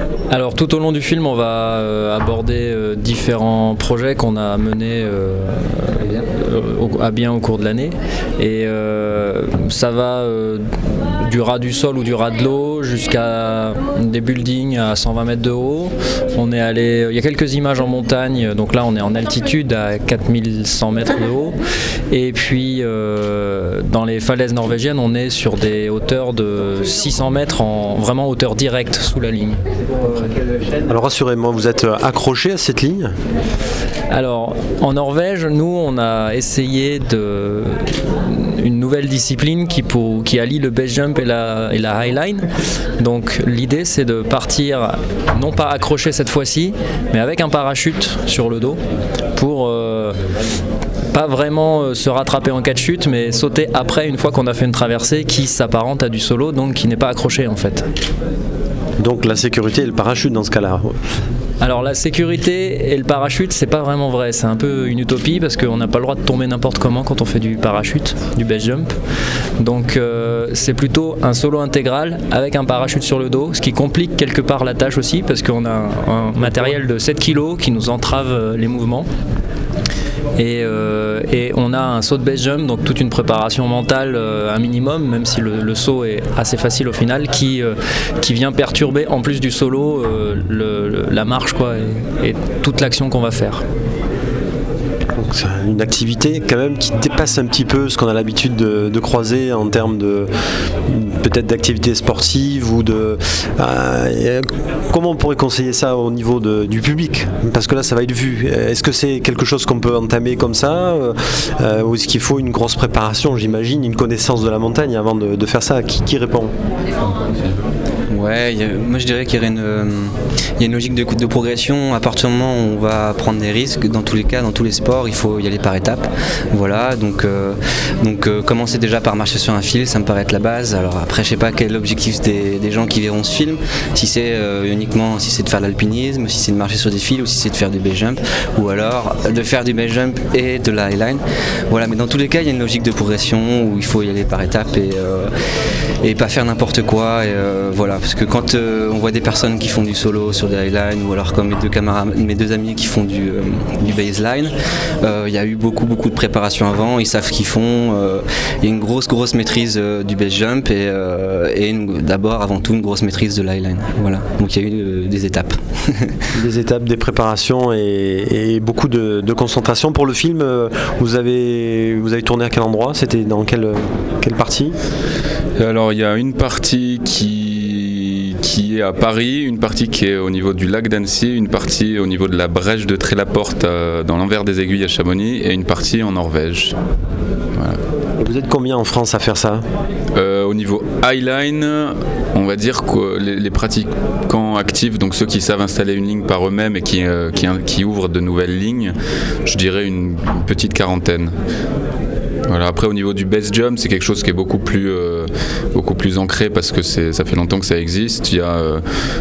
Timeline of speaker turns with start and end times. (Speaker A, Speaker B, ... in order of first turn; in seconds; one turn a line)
Speaker A: 0.3-21.6
Speaker A: 22.1-30.2
Speaker B: 30.9-33.1
Speaker A: 34.1-42.5
Speaker A: 43.0-48.8
Speaker A: 49.4-50.2
Speaker A: 51.1-57.9
Speaker B: 59.0-60.9
Speaker A: 61.6-68.9
Speaker A: 69.6-79.1
Speaker A: 80.4-93.6
Speaker B: 95.2-100.3
Speaker B: 100.9-116.5
Speaker C: 118.1-145.3
Speaker C: 146.0-166.1
Speaker B: 166.3-174.8
Speaker D: 175.6-186.8
Speaker D: 187.5-187.8
Speaker B: 188.2-189.6
Speaker D: 190.2-201.3
Speaker D: 202.5-208.8